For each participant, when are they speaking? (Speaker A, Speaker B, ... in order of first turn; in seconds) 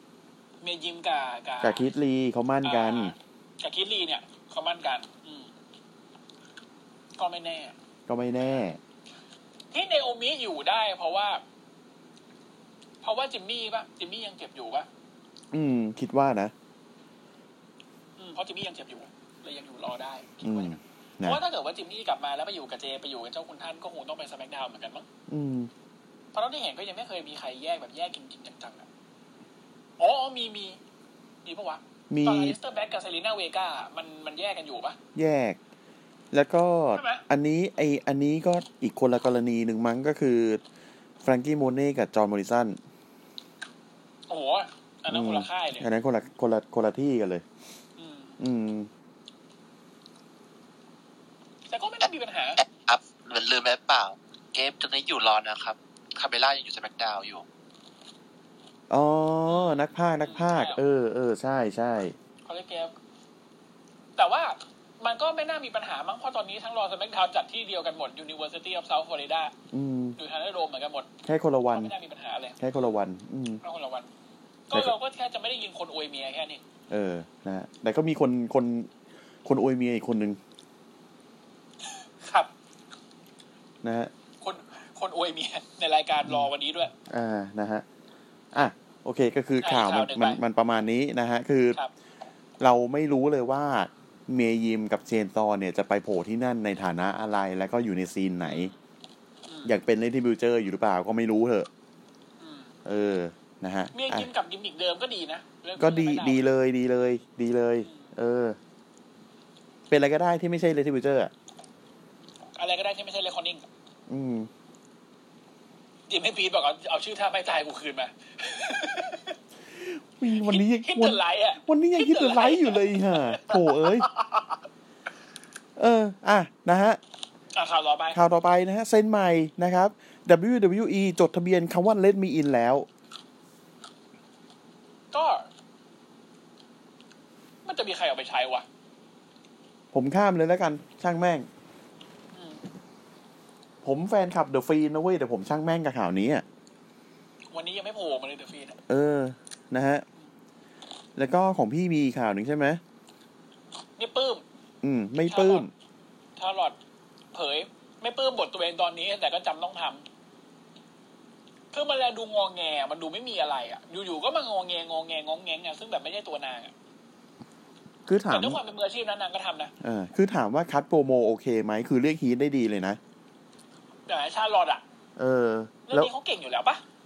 Speaker A: 0.6-1.8, 2.6-5.5, 7.2-7.7, 9.7-11.4, 13.0-14.9, 18.2-25.1, 26.3-28.9, 30.0-30.8, 31.4-35.0, 36.9-37.2, 44.3-45.9, 48.0-48.4, 51.7-52.6, 59.5-60.8, 62.4-62.9, 64.2-69.5, 70.2-71.1, 71.7-72.6, 73.6-74.1, 74.7-76.6, 82.2-82.5, 84.4-86.9, 89.6-90.4, 98.5-98.7, 99.5-99.7, 102.4-102.7, 103.9-106.4, 107.8-108.1, 112.6-113.7, 116.1-119.3, 120.4-124.5, 127.5-128.2, 135.1-135.4, 137.6-138.6, 142.3-142.6, 147.5-148.8, 154.0-154.4, 155.3-155.7, 156.4-156.8, 157.3-160.0, 161.7-166.7, 168.3-169.7, 174.1-174.8, 175.9-176.8
Speaker B: 1.6-3.1, 8.1-8.8, 15.5-16.5, 20.4-21.4, 25.3-25.7, 32.1-32.6, 35.1-35.6, 36.3-40.6, 41.2-42.8, 45.1-47.4, 48.4-48.9, 58.9-62.1, 69.7-70.2, 71.2-71.9, 72.6-73.6, 76.9-78.9, 79.4-80.4, 83.8-84.1, 87.1-87.8, 88.5-91.8, 92.6-98.7, 99.6-101.7, 102.8-104.3, 105.8-108.6, 109.9-111.3, 114.1-114.5, 119.7-124.1, 125.8-127.0, 128.1-132.9, 139.9-141.5, 143.8-146.4, 148.9-150.0, 151.2-152.8, 154.8-155.7, 168.1-168.6, 169.8-173.0, 175.2-176.1
Speaker C: 52.6-57.4